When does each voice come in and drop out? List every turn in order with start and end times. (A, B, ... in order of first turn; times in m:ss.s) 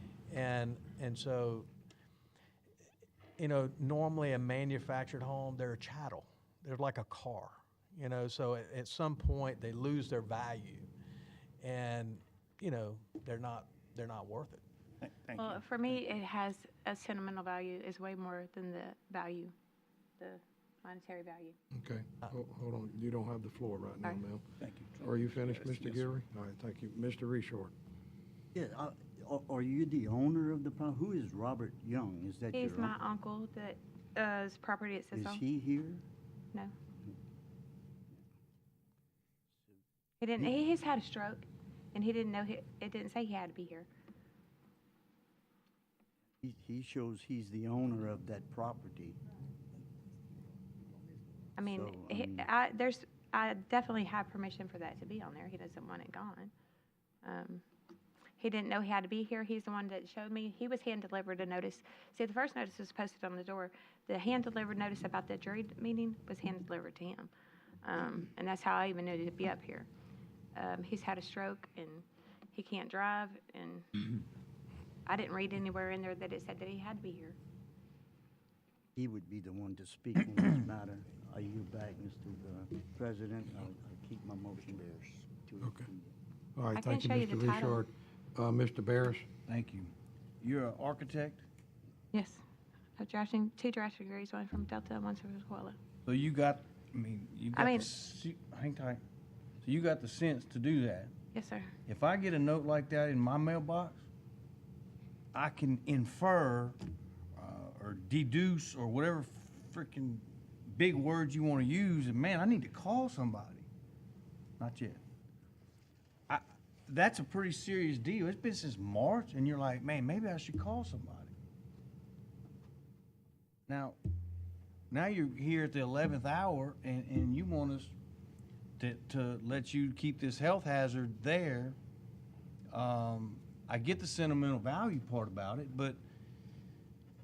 0:00.3-0:01.7 A
0:03.4-0:10.9 A
0:11.6-0:14.6 A
0:15.3-0:19.5 B
0:20.2-0:21.6 B
0:21.7-0:27.7 C
0:28.5-0:33.0 D
0:32.5-0:35.4 B
0:35.1-0:36.0 D
0:40.2-0:43.9 B
0:46.4-0:49.2 D
0:51.6-0:56.5 B
0:51.6-0:52.5 D
0:57.2-0:57.6 B
0:58.4-1:07.3 B
1:07.8-1:09.9 B
1:10.6-1:13.9 B
1:15.1-1:17.4 B
1:19.0-1:26.1 D
1:25.6-1:25.9 C
1:26.6-1:29.3 C
1:26.8-1:27.8 B
1:29.5-1:31.4 E
1:32.1-1:32.4 B
1:33.0-1:35.8 B
1:36.1-1:39.0 E
1:37.5-1:37.9 B
1:39.6-1:41.1 E
1:41.3-1:41.7 B
1:41.9-1:44.0 E
1:45.3-1:46.8 E
1:47.4-1:53.7 E
1:54.6-1:55.0 E
1:56.3-2:01.3 E
2:03.7-2:04.0 E
2:04.9-2:07.9 E
2:08.8-2:11.8 E
2:12.7-2:16.0 E